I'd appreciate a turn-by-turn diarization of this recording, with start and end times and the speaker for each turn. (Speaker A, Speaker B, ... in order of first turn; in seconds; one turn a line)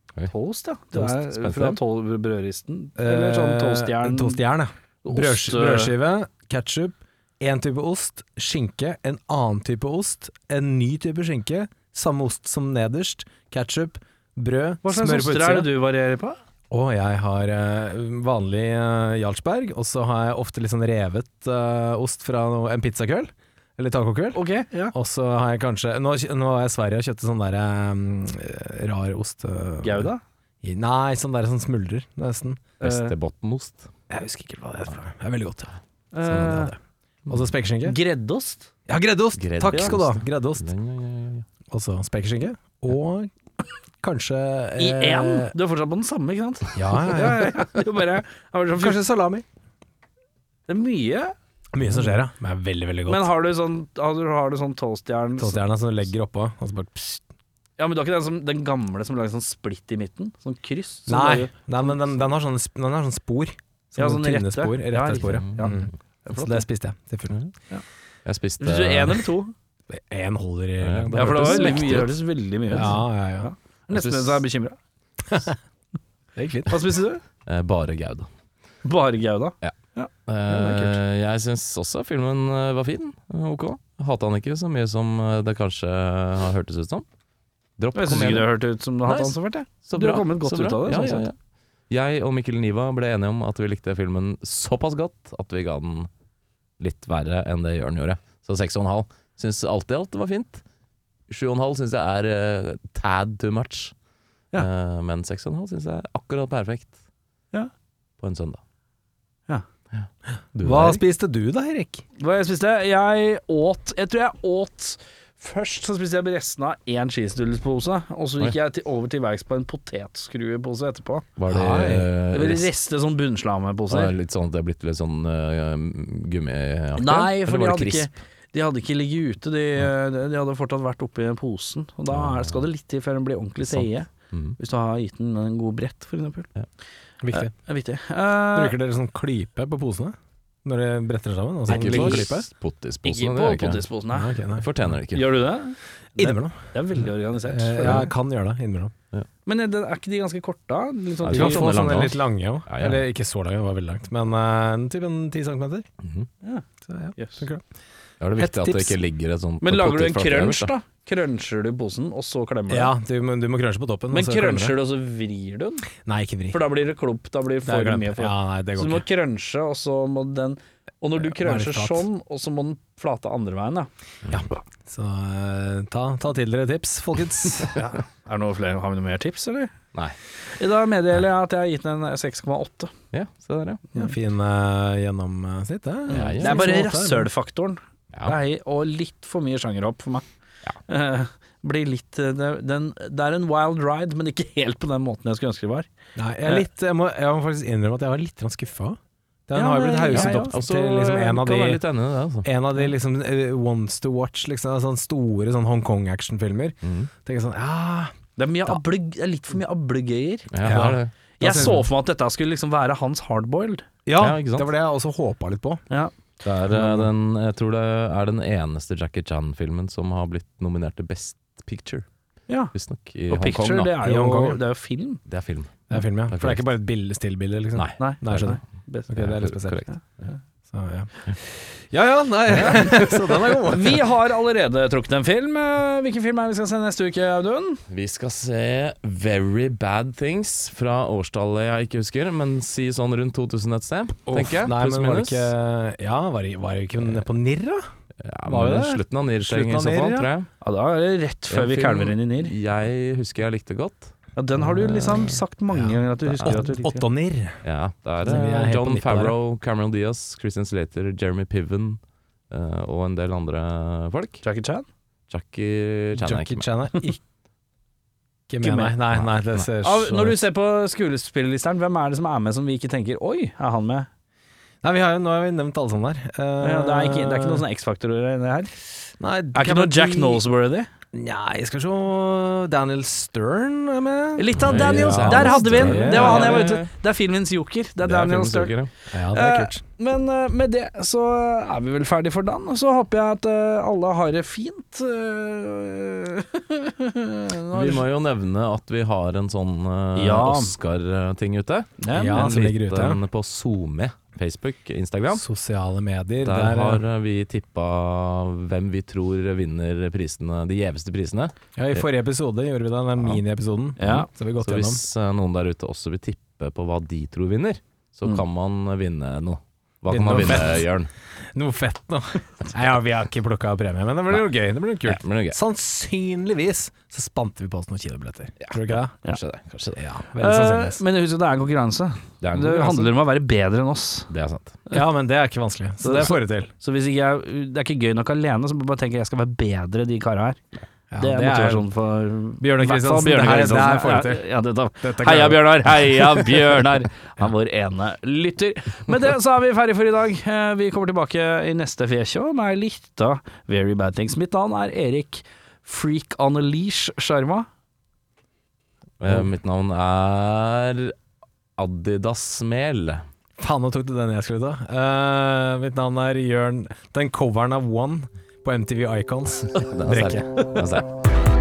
Speaker A: 0.3-4.4
Speaker B: 0.9-1.8
Speaker C: 3.0-15.7
Speaker A: 5.0-5.9
Speaker A: 14.8-16.4
Speaker C: 16.7-24.4
Speaker A: 24.3-24.9
Speaker C: 24.9-30.1
Speaker A: 29.8-30.2
Speaker C: 30.6-32.7
Speaker B: 32.8-33.9
Speaker A: 32.8-33.1
Speaker C: 34.1-36.8
Speaker A: 36.1-36.7
Speaker C: 37.3-38.0
Speaker A: 37.9-38.7
Speaker C: 38.9-40.7
Speaker B: 39.4-41.5
Speaker C: 41.7-43.3
Speaker C: 44.0-45.5
Speaker A: 44.8-49.0
Speaker C: 46.7-47.5
Speaker C: 48.8-49.5
Speaker A: 50.7-51.3
Speaker C: 51.7-53.3
Speaker A: 53.1-55.6
Speaker C: 55.4-57.2
Speaker A: 57.8-62.3
Speaker C: 61.1-67.4
Speaker A: 63.9-66.6
Speaker B: 65.3-65.9
Speaker B: 68.3-69.2
Speaker A: 68.6-69.5
Speaker C: 69.9-72.1
Speaker B: 70.8-72.1
Speaker A: 71.1-74.8
Speaker C: 72.7-73.5
Speaker B: 73.9-74.4
Speaker C: 75.3-75.5
Speaker C: 76.4-76.9
Speaker A: 76.7-77.2
Speaker B: 77.5-78.3
Speaker A: 78.8-80.1
Speaker B: 80.3-87.0
Speaker C: 80.5-81.0
Speaker B: 87.8-88.5
Speaker A: 88.0-91.3
Speaker B: 89.0-91.4
Speaker B: 91.9-96.1
Speaker B: 96.8-100.6
Speaker B: 101.3-103.9
Speaker B: 104.5-107.0
Speaker B: 108.2-108.6
Speaker B: 109.9-111.0
Speaker C: 110.6-112.0
Speaker A: 112.2-121.3
Speaker B: 121.4-122.7
Speaker C: 121.5-122.1
Speaker A: 122.3-124.1
Speaker B: 123.9-128.1
Speaker A: 127.0-136.5
Speaker B: 132.1-132.6
Speaker B: 133.8-134.6
Speaker C: 137.2-137.5
Speaker A: 137.3-138.8
Speaker C: 138.5-142.5
Speaker B: 141.7-143.8
Speaker A: 141.7-142.2
Speaker A: 143.1-144.3
Speaker C: 144.1-144.8
Speaker B: 144.6-145.4
Speaker A: 145.1-148.1
Speaker C: 146.2-146.6
Speaker C: 147.5-148.9
Speaker A: 149.4-151.7
Speaker B: 151.2-153.0
Speaker C: 151.3-155.9
Speaker C: 156.9-157.6
Speaker A: 157.2-157.4
Speaker B: 158.2-160.7
Speaker C: 158.4-159.0
Speaker A: 159.6-162.9
Speaker C: 162.7-164.8
Speaker A: 164.1-165.9
Speaker C: 166.1-166.6
Speaker A: 166.5-173.9
Speaker C: 167.7-169.1
Speaker C: 171.2-172.1
Speaker C: 174.3-177.8
Speaker A: 177.7-179.7
Speaker A: 180.6-182.9
Speaker B: 183.1-183.8
Speaker C: 183.9-187.3
Speaker A: 186.1-190.2
Speaker B: 186.1-186.7
Speaker A: 190.9-195.9
Speaker C: 196.2-201.8
Speaker A: 199.6-200.5
Speaker B: 200.1-202.5
Speaker C: 202.4-208.1
Speaker B: 206.8-207.1
Speaker A: 208.4-210.5
Speaker B: 210.5-211.8
Speaker C: 210.6-211.8
Speaker A: 211.4-213.9
Speaker C: 214.1-215.8
Speaker B: 214.2-214.7
Speaker B: 216.4-222.1
Speaker C: 216.7-217.1
Speaker B: 222.7-223.9
Speaker A: 223.3-225.2
Speaker C: 224.0-224.6
Speaker B: 225.3-226.6
Speaker C: 225.9-229.8
Speaker B: 227.8-228.6
Speaker A: 228.0-229.1
Speaker B: 229.1-230.3
Speaker C: 230.7-234.0
Speaker B: 232.6-233.4
Speaker A: 233.7-237.8
Speaker B: 237.9-245.5
Speaker C: 244.3-247.8
Speaker B: 248.2-250.5
Speaker C: 248.4-250.3
Speaker A: 250.6-252.5
Speaker B: 251.5-255.4
Speaker A: 254.4-257.1
Speaker B: 256.2-256.8
Speaker C: 256.4-257.6
Speaker B: 257.6-264.4
Speaker C: 258.2-259.4
Speaker A: 264.4-264.9
Speaker B: 265.3-266.7
Speaker C: 266.2-267.2
Speaker C: 268.5-270.2
Speaker A: 268.6-269.0
Speaker B: 269.1-270.3
Speaker A: 269.8-274.1
Speaker C: 274.8-277.6
Speaker A: 276.6-278.7
Speaker C: 279.2-280.4
Speaker A: 279.6-280.9
Speaker C: 281.1-286.7
Speaker A: 284.4-288.8
Speaker B: 284.6-286.9
Speaker B: 288.0-288.9
Speaker C: 289.1-289.8
Speaker A: 289.3-298.0
Speaker B: 297.7-305.4
Speaker A: 300.2-300.7
Speaker A: 302.0-302.6
Speaker C: 302.1-303.2
Speaker C: 305.3-307.0
Speaker B: 306.4-312.1
Speaker C: 311.8-315.0
Speaker A: 314.0-314.3
Speaker B: 314.0-321.1
Speaker C: 320.1-329.2
Speaker B: 325.0-325.6
Speaker B: 328.6-330.1
Speaker C: 329.9-331.0
Speaker A: 330.4-334.3
Speaker B: 332.4-333.1
Speaker B: 334.3-334.8
Speaker C: 334.9-336.7
Speaker A: 336.0-340.6
Speaker C: 341.1-341.9
Speaker A: 341.2-357.7
Speaker C: 342.6-346.3
Speaker B: 359.2-361.2
Speaker B: 361.8-363.3
Speaker C: 363.6-370.4
Speaker B: 369.7-371.1